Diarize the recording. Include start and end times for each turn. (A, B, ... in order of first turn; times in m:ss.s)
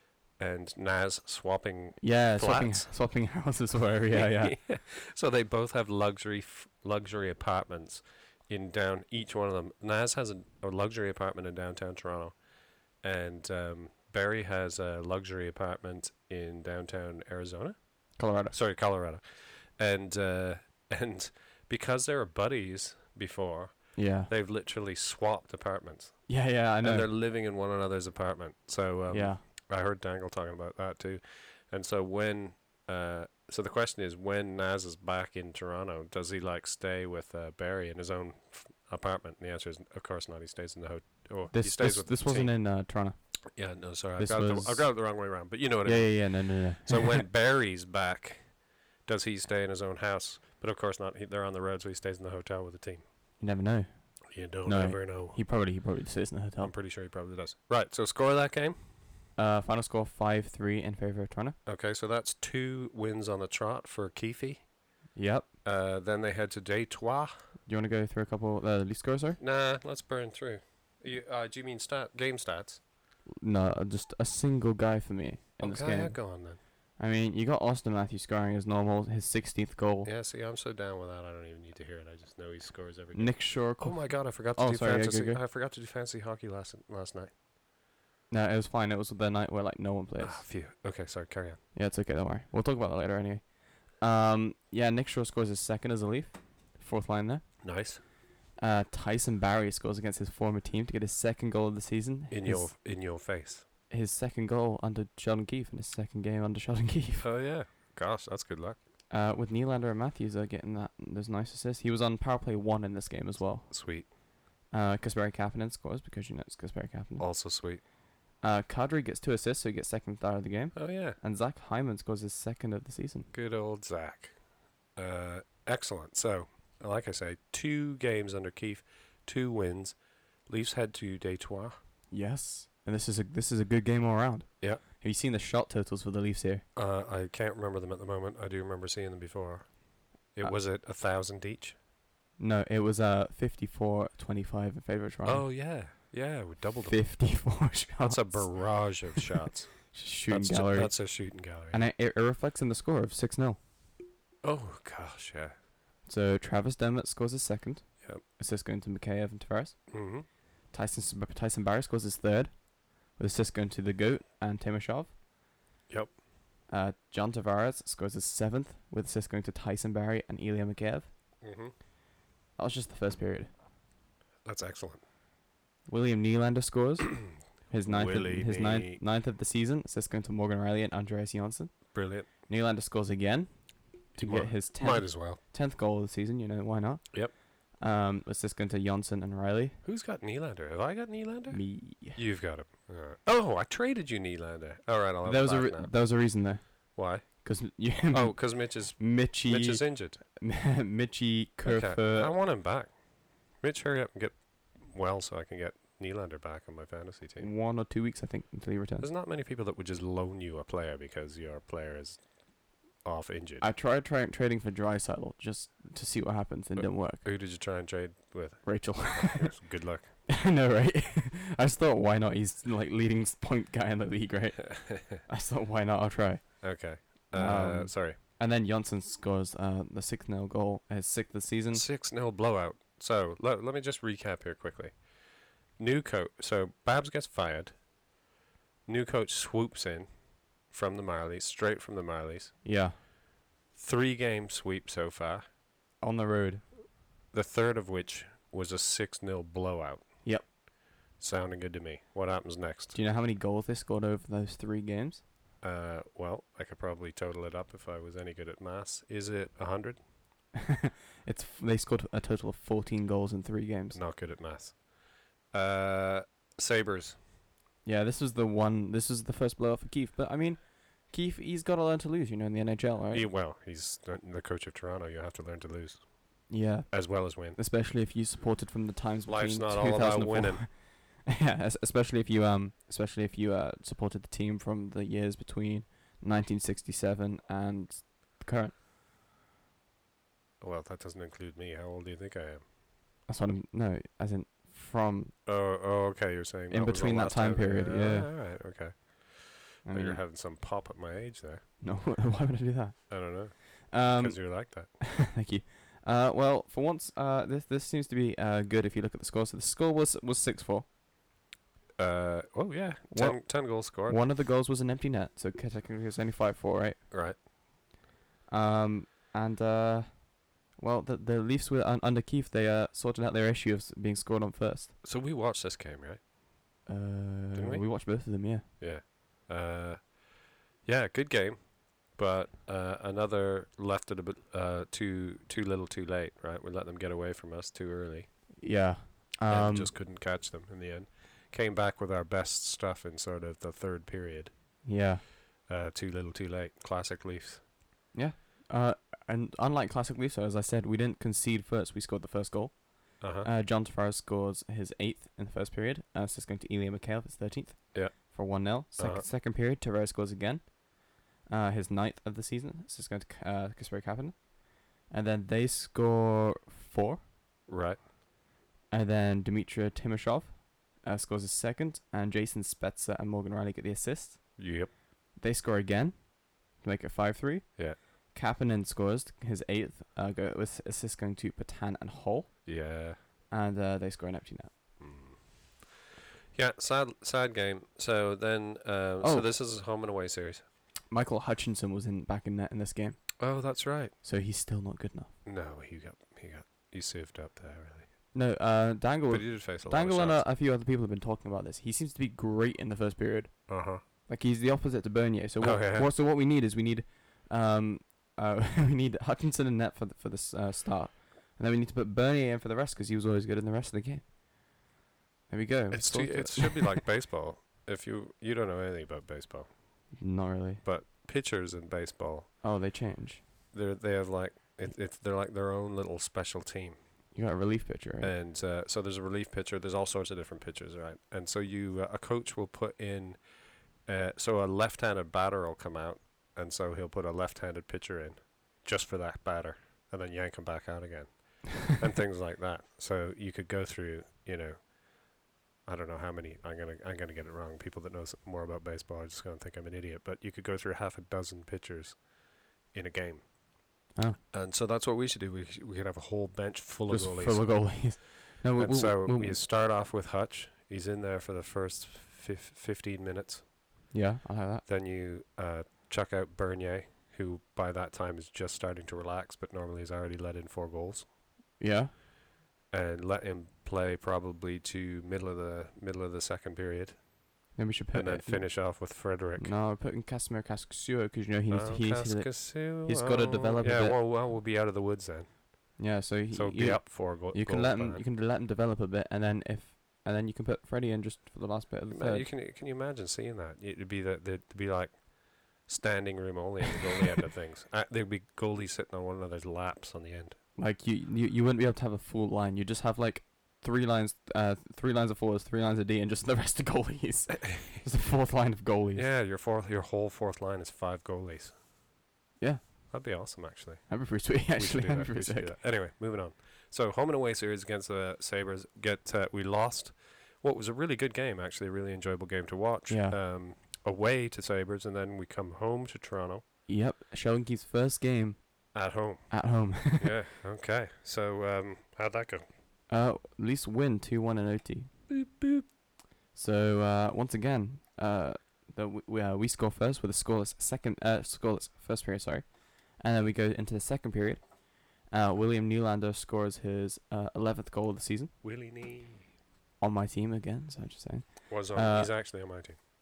0:00.4-0:02.9 A
0:02.0-0:04.6 B
0:04.1-0:42.5 A
0:18.2-0:18.6 B
0:23.9-0:24.3 B
0:26.3-0:27.1 B
0:29.1-0:29.4 B
0:41.5-0:47.2 B
0:43.5-0:53.0 A
0:53.4-0:56.7 B
0:54.3-0:55.4 A
0:56.6-0:58.8 A
0:59.4-1:01.6 B
1:01.6-1:04.7 A
1:05.1-1:05.5 B
1:05.6-1:07.4 A
1:07.6-1:09.4 B
1:09.4-1:12.8 A
1:13.4-1:20.1 B
1:15.6-1:16.6 A
1:20.0-1:27.3 A
1:23.1-1:25.4 B
1:28.3-1:30.5 B
1:30.2-1:31.6 A
1:31.7-1:37.9 B
1:37.6-1:38.0 A
1:38.6-1:42.7 B
1:42.3-1:43.6 A
1:43.9-1:47.3 B
1:47.2-1:48.8 A
1:49.1-1:54.1 B
1:53.7-1:54.1 A
1:54.7-1:57.3 B
1:57.2-1:57.8 A
1:58.4-2:03.3 B
2:00.7-2:01.2 A
2:03.3-2:04.4 A
2:04.9-2:11.8 A
2:12.1-2:16.6 B
2:16.7-2:21.8 A
2:22.4-2:25.5 B
2:25.2-2:31.8 A
2:26.8-2:29.2 B
2:29.9-2:33.6 B
2:34.4-2:35.5 A
2:36.0-2:45.2 B
2:39.9-2:40.2 A
2:45.9-2:46.2 A
2:46.7-2:51.1 B
2:51.4-2:51.7 A
2:52.6-2:53.5 B
2:54.4-2:55.0 A
2:55.9-3:09.8 B
2:57.8-2:59.0 A
3:01.9-3:02.3 A
3:04.2-3:05.4 A
3:09.8-3:16.0 A
3:11.5-3:12.2 B
3:15.2-3:22.4 B
3:16.9-3:17.5 A
3:18.1-3:20.2 A
3:21.6-3:27.5 A
3:27.4-3:29.1 B
3:29.0-3:32.2 A
3:33.0-3:33.7 A
3:33.6-3:37.2 B
3:36.8-3:40.1 A
3:38.6-3:39.6 B
3:40.3-3:51.8 B
3:46.6-3:48.2 A
3:51.7-3:55.1 A
3:55.8-3:57.8 A
3:58.8-4:02.5 A
4:02.6-4:03.0 B
4:03.7-4:05.4 A
4:06.0-4:06.6 B
4:07.3-4:10.3 A
4:11.2-4:13.0 A
4:12.9-4:15.2 B
4:15.6-4:20.0 A
4:21.2-4:24.0 B
4:23.9-4:24.9 A
4:25.5-4:27.2 A
4:27.8-4:33.3 B
4:33.1-4:37.6 A
4:36.5-4:48.8 B
4:39.2-4:40.7 A
4:50.6-4:52.6 A
4:53.3-4:55.3 B
4:55.4-5:01.7 A
4:56.7-4:58.3 B
4:59.8-5:00.2 B
5:01.8-5:10.9 B
5:03.1-5:04.9 A
5:12.0-5:14.2 A
5:13.1-5:17.0 B
5:17.1-5:17.4 A
5:18.5-5:24.9 B
5:25.0-5:26.2 A
5:26.8-5:28.7 B
5:27.5-5:27.9 A
5:28.8-5:30.2 A
5:30.8-5:38.3 A
5:38.6-5:39.9 B
5:39.5-5:44.8 A
5:44.8-5:45.2 B
5:45.6-5:47.6 A
5:48.1-6:07.2 B
5:53.2-5:53.5 A
5:57.9-5:58.3 A
5:59.0-5:59.2 A
6:07.7-6:08.0 A
6:08.9-6:14.8 B
6:14.6-6:14.9 A
6:15.3-6:24.7 B
6:22.6-6:23.2 A
6:25.0-6:25.6 A
6:26.5-6:30.6 A
6:29.2-6:29.5 B
6:31.1-6:33.5 B
6:33.4-6:34.1 A
6:34.1-6:35.3 B
6:35.4-6:38.3 A
6:38.3-6:54.3 B
6:39.3-6:40.4 A
6:43.7-6:44.0 A
6:45.6-6:46.1 A
6:55.5-6:57.0 B
6:55.9-7:00.2 A
7:00.2-7:00.8 B
7:00.8-7:02.5 A
7:02.6-7:03.4 B
7:03.7-7:07.0 A
7:07.3-7:08.3 B
7:08.2-7:33.6 A
7:34.5-7:38.2 A
7:37.1-7:39.6 B
7:38.8-7:43.7 A
7:44.1-7:44.8 B
7:44.8-7:51.3 A
7:51.8-7:52.1 B
7:52.9-7:57.3 A
7:57.7-8:04.2 B
7:58.1-7:59.7 A
8:01.7-8:08.2 A
8:06.0-8:12.5 B
8:12.1-8:20.6 A
8:20.8-8:29.3 B
8:29.1-8:31.8 A
8:32.6-8:33.4 B
8:33.1-8:46.6 A
8:34.1-8:35.7 B
8:43.1-8:43.4 B
8:46.9-8:50.3 B
8:48.9-8:52.6 A
8:53.1-8:55.1 B
8:55.3-8:55.9 A
8:56.5-9:08.5 B
9:08.6-9:09.4 A
9:10.0-9:12.7 B
9:11.7-9:13.0 A